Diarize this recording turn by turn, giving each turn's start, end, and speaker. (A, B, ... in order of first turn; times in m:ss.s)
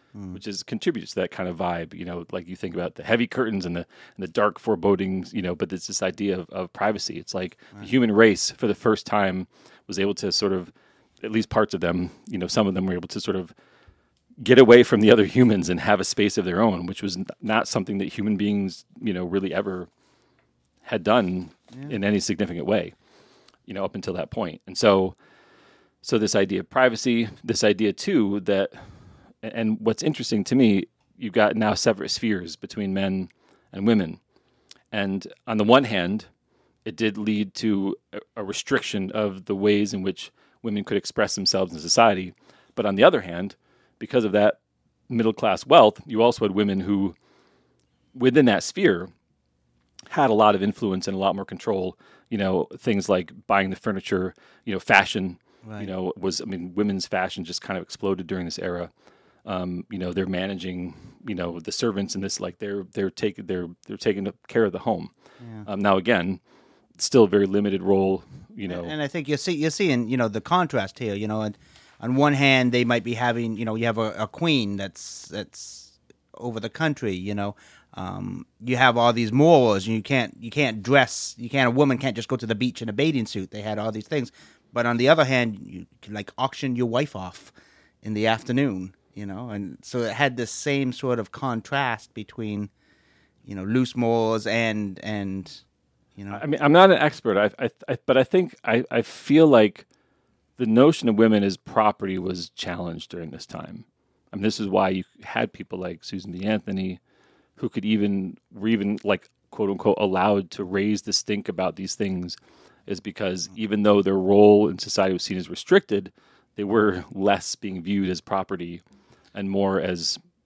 0:00.1-0:00.4 A
0:00.3-0:13.5 B
0:14.4-0:19.9 B
0:20.8-0:22.9 B
0:23.7-0:25.2 B
0:26.0-0:28.8 B
0:29.4-0:34.2 B
0:34.9-0:36.3 B
0:36.8-0:44.6 B
0:45.1-0:47.2 B
0:48.2-0:49.1 B
0:50.1-0:58.9 B
0:55.6-0:55.9 A
0:59.4-1:05.1 B
1:05.4-1:05.7 A
1:05.7-1:06.4 B
1:07.0-1:08.9 B
1:08.7-1:32.7 A
1:33.4-1:35.6 A
1:36.2-1:36.4 A
1:36.3-1:39.8 B
1:40.6-1:47.0 B
1:47.6-1:58.8 B
1:59.3-2:00.2 B